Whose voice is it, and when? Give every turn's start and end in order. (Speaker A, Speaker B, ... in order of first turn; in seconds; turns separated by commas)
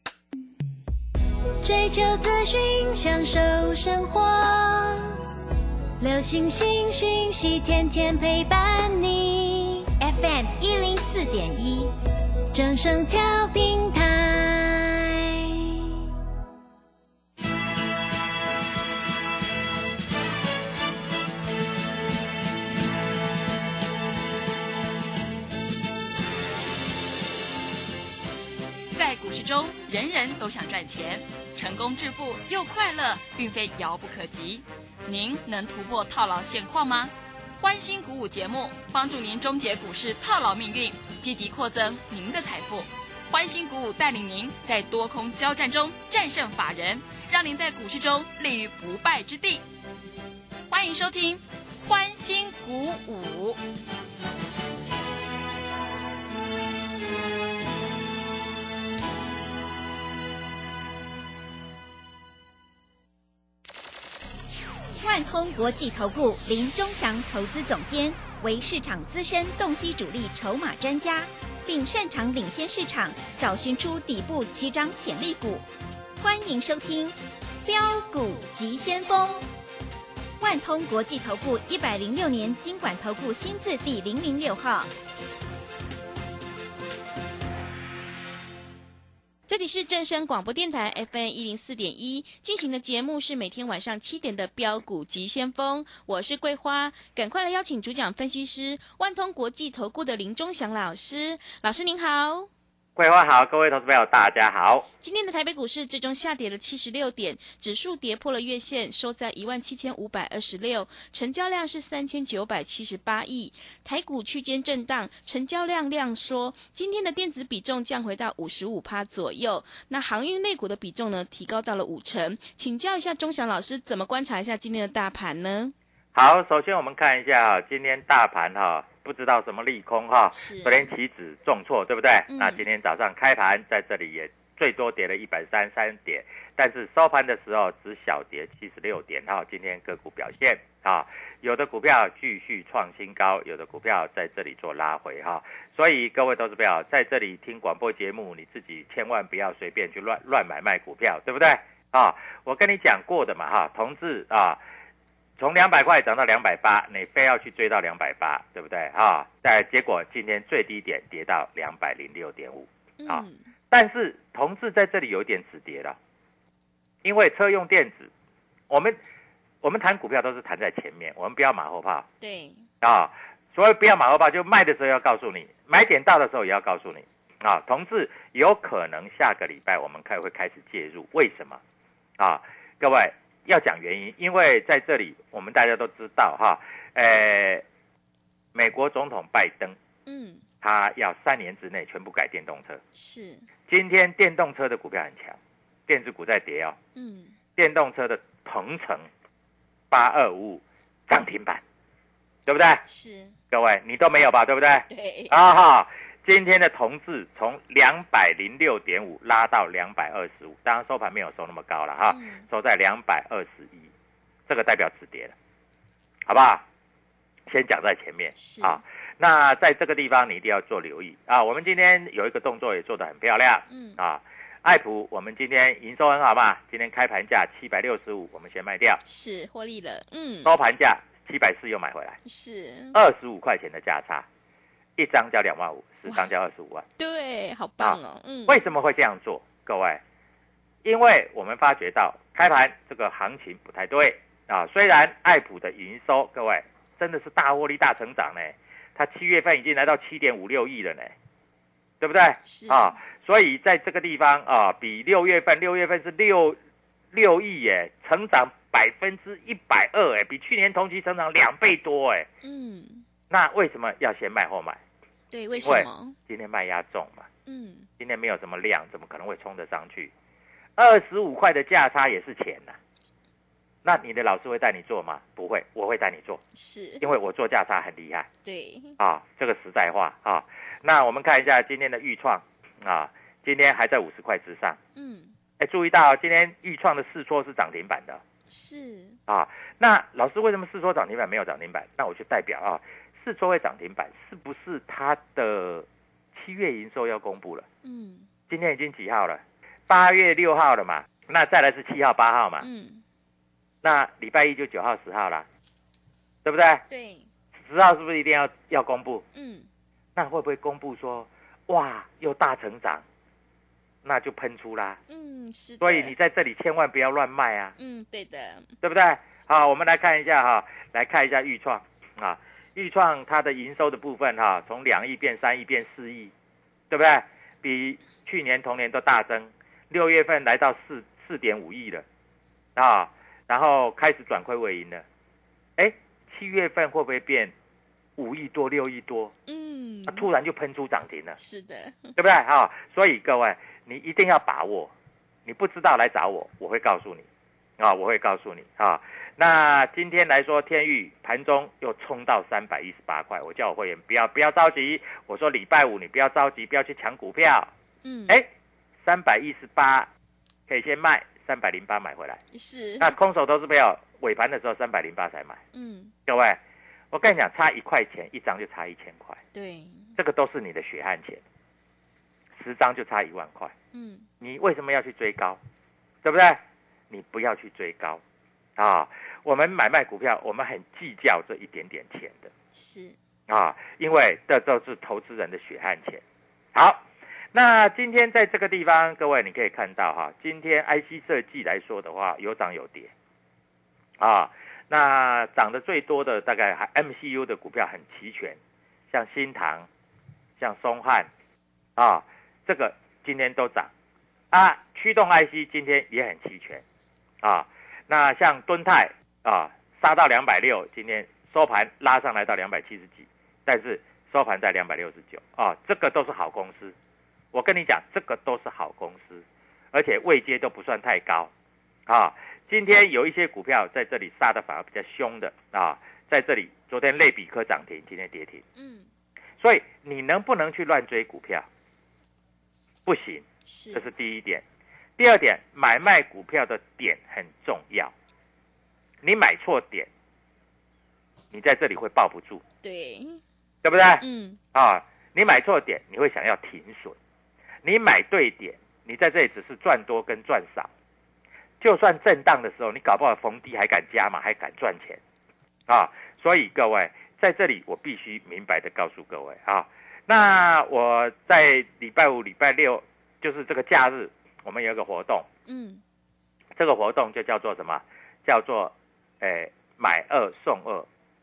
Speaker A: 1.6-5.2, Speaker A: 6.0-11.9, Speaker A: 12.5-15.9, Speaker B: 28.9-49.6, Speaker B: 50.7-53.6, Speaker C: 65.0-75.6, Speaker C: 76.2-79.4, Speaker C: 80.4-84.9, Speaker D: 89.5-102.5, Speaker E: 103.0-104.8, Speaker D: 105.0-125.7, Speaker E: 126.1-154.6, Speaker D: 130.3-130.9, Speaker D: 132.3-132.6, Speaker E: 155.4-165.9, Speaker D: 163.0-163.4, Speaker E: 167.0-168.1, Speaker E: 168.7-169.0, Speaker E: 169.6-172.1, Speaker D: 172.2-172.6, Speaker E: 172.8-181.6, Speaker E: 182.2-187.6, Speaker E: 188.5-189.8, Speaker D: 190.1-190.4, Speaker E: 190.6-192.8, Speaker D: 192.9-193.4, Speaker E: 193.7-196.8, Speaker D: 196.9-197.3, Speaker E: 197.6-199.1, Speaker E: 199.9-201.6, Speaker E: 202.4-202.8, Speaker D: 202.9-203.3, Speaker E: 203.5-213.9, Speaker D: 204.9-205.3, Speaker D: 212.1-212.5, Speaker E: 214.5-215.3, Speaker E: 216.3-216.6, Speaker E: 217.5-229.0, Speaker D: 218.3-218.8, Speaker D: 223.7-224.0, Speaker D: 229.1-230.5, Speaker E: 230.4-232.2, Speaker D: 232.2-233.0, Speaker E: 232.9-234.2, Speaker E: 235.0-236.8, Speaker D: 237.0-238.7, Speaker E: 237.8-240.0, Speaker E: 240.8-251.1, Speaker E: 252.0-256.6, Speaker D: 252.4-252.9, Speaker E: 257.1-262.3, Speaker D: 262.4-263.0, Speaker E: 263.3-264.8, Speaker D: 265.3-266.1, Speaker E: 265.6-267.3, Speaker D: 267.4-267.9, Speaker E: 268.0-270.1, Speaker E: 270.8-272.8, Speaker E: 273.8-276.4, Speaker D: 276.5-277.1, Speaker E: 277.0-278.3, Speaker D: 278.4-278.9, Speaker E: 279.0-284.8, Speaker D: 284.9-285.3, Speaker E: 285.6-288.2, Speaker D: 288.5-289.2, Speaker E: 289.3-297.6, Speaker D: 297.8-298.3, Speaker E: 298.5-302.6, Speaker D: 302.6-303.0, Speaker E: 303.8-305.4, Speaker E: 306.4-306.8, Speaker D: 306.9-307.2, Speaker E: 307.6-309.2, Speaker D: 309.3-309.7, Speaker E: 310.1-313.0, Speaker E: 314.0-315.0, Speaker D: 315.1-316.1, Speaker E: 315.8-317.7, Speaker D: 317.8-318.7, Speaker E: 318.8-326.3, Speaker E: 326.9-332.0, Speaker E: 332.8-335.0, Speaker E: 335.8-337.5, Speaker E: 338.2-339.3, Speaker D: 339.5-340.3, Speaker E: 340.1-341.4, Speaker D: 341.4-342.1, Speaker E: 342.1-344.9, Speaker E: 345.4-347.2, Speaker E: 347.8-357.7, Speaker D: 358.0-358.4, Speaker E: 359.0-360.1, Speaker E: 360.7-362.4, Speaker D: 362.5-363.1, Speaker E: 363.0-365.6, Speaker D: 365.7-366.1, Speaker E: 366.3-366.6, Speaker E: 367.1-369.4, Speaker D: 369.5-370.1, Speaker E: 370.2-371.4, Speaker E: 372.6-373.7, Speaker D: 373.9-374.3, Speaker E: 374.4-375.6, Speaker E: 376.2-378.2, Speaker E: 378.8-382.5, Speaker D: 382.7-383.1, Speaker E: 383.5-386.2, Speaker E: 386.7-393.1, Speaker E: 394.2-398.6, Speaker E: 399.1-399.9, Speaker E: 400.6-401.3, Speaker E: 402.0-403.9, Speaker E: 404.5-406.8, Speaker E: 407.4-416.9, Speaker E: 417.5-421.5, Speaker E: 422.1-428.6, Speaker D: 428.8-429.1, Speaker E: 429.6-431.6, Speaker E: 433.1-434.6, Speaker D: 433.6-434.1, Speaker E: 435.2-438.1, Speaker E: 439.2-440.1, Speaker E: 441.5-442.6, Speaker D: 442.8-443.4, Speaker E: 443.8-447.1, Speaker D: 444.2-444.6, Speaker E: 447.8-450.9, Speaker E: 451.8-455.2, Speaker E: 455.9-465.4, Speaker D: 465.7-466.0, Speaker E: 466.8-471.1